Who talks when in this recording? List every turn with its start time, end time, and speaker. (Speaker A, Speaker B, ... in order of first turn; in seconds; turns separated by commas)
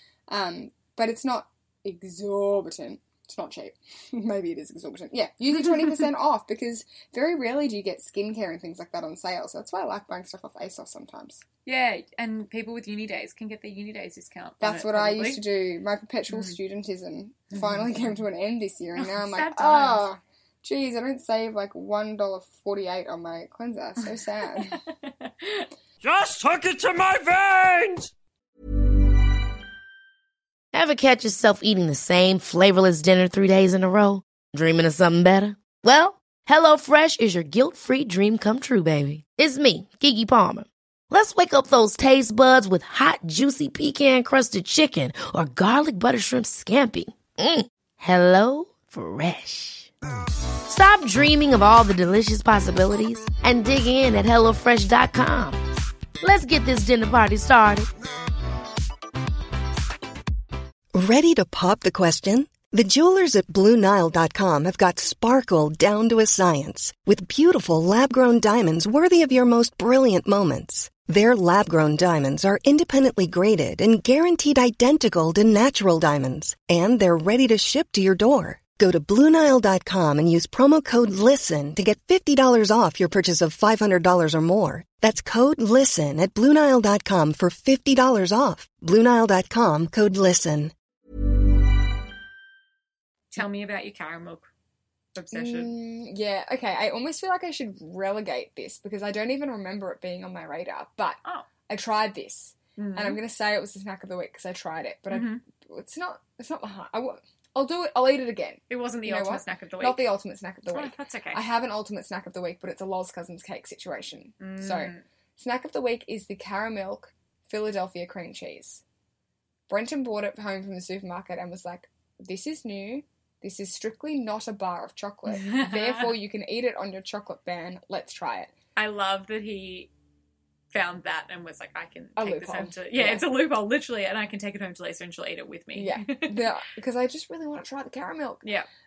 Speaker A: 0.3-11.4, Speaker B: 11.7-15.4, Speaker A: 14.6-24.8, Speaker B: 17.5-17.8, Speaker B: 19.0-20.1, Speaker B: 24.5-25.6, Speaker C: 26.0-28.1, Speaker D: 30.7-49.9, Speaker D: 50.6-55.6, Speaker D: 56.2-57.9, Speaker E: 60.9-90.7, Speaker B: 93.3-94.5, Speaker B: 95.1-95.7, Speaker A: 95.3-118.8, Speaker B: 102.8-103.2, Speaker B: 105.1-105.4, Speaker B: 108.7-110.0, Speaker B: 110.7-111.4, Speaker B: 114.4-115.0, Speaker A: 119.7-128.5, Speaker B: 125.3-126.1, Speaker B: 128.8-129.9, Speaker B: 130.7-136.5, Speaker A: 132.2-133.2, Speaker A: 135.7-138.5